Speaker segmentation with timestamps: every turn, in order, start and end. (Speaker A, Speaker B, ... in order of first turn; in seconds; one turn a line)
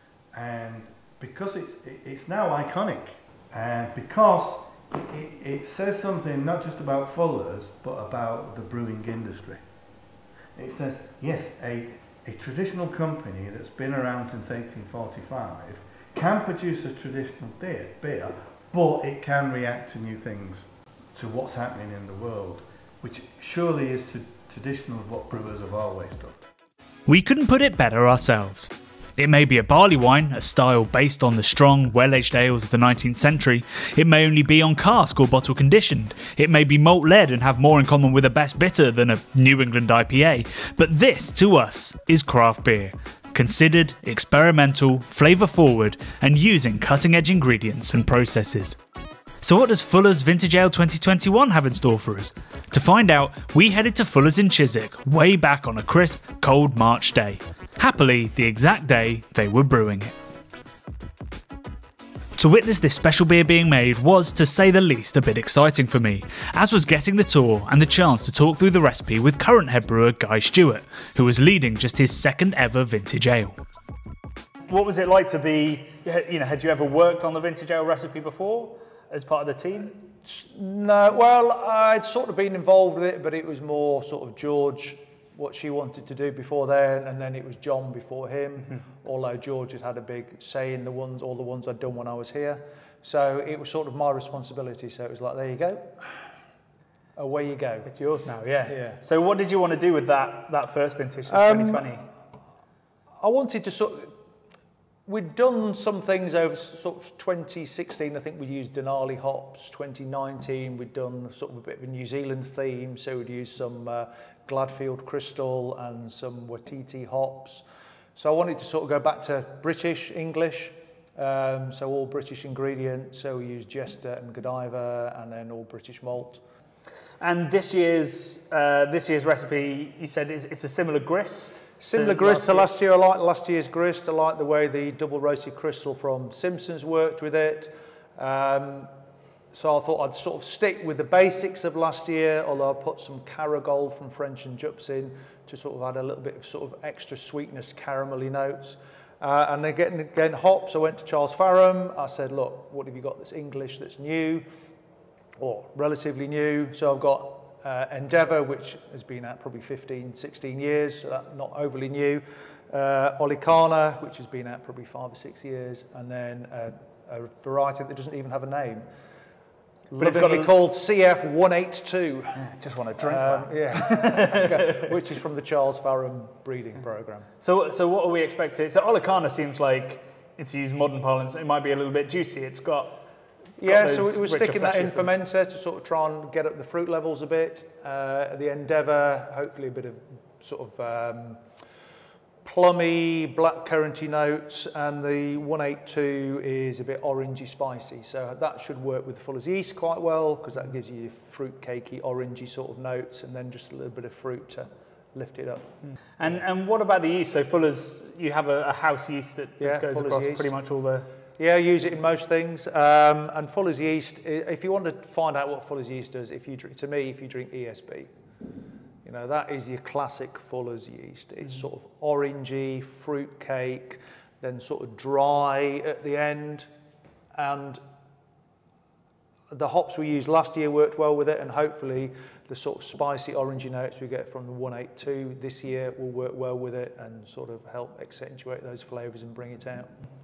Speaker A: 0.3-9.6
Speaker A: 10.6-26.5
Speaker B: 27.1-48.8
Speaker B: 49.4-60.1
Speaker B: 62.4-73.6
Speaker B: 74.7-80.0
Speaker C: 80.2-96.2
Speaker C: 97.2-97.9
Speaker B: 97.9-102.0
Speaker C: 98.7-99.0
Speaker C: 101.3-102.0
Speaker C: 103.2-104.2
Speaker C: 105.1-117.7
Speaker C: 118.2-126.4
Speaker B: 127.2-132.7
Speaker C: 131.8-138.9
Speaker C: 139.5-154.5
Speaker C: 155.4-168.9
Speaker B: 169.9-170.6
Speaker C: 170.0-172.4
Speaker B: 172.4-174.9
Speaker C: 173.0-177.3
Speaker B: 177.4-183.1
Speaker C: 183.6-191.4
Speaker B: 183.6-185.2
Speaker C: 192.4-206.4
Speaker B: 206.2-211.1
Speaker C: 209.6-210.6
Speaker C: 211.4-218.1
Speaker C: 219.0-226.7
Speaker C: 227.3-227.8
Speaker C: 229.5-239.9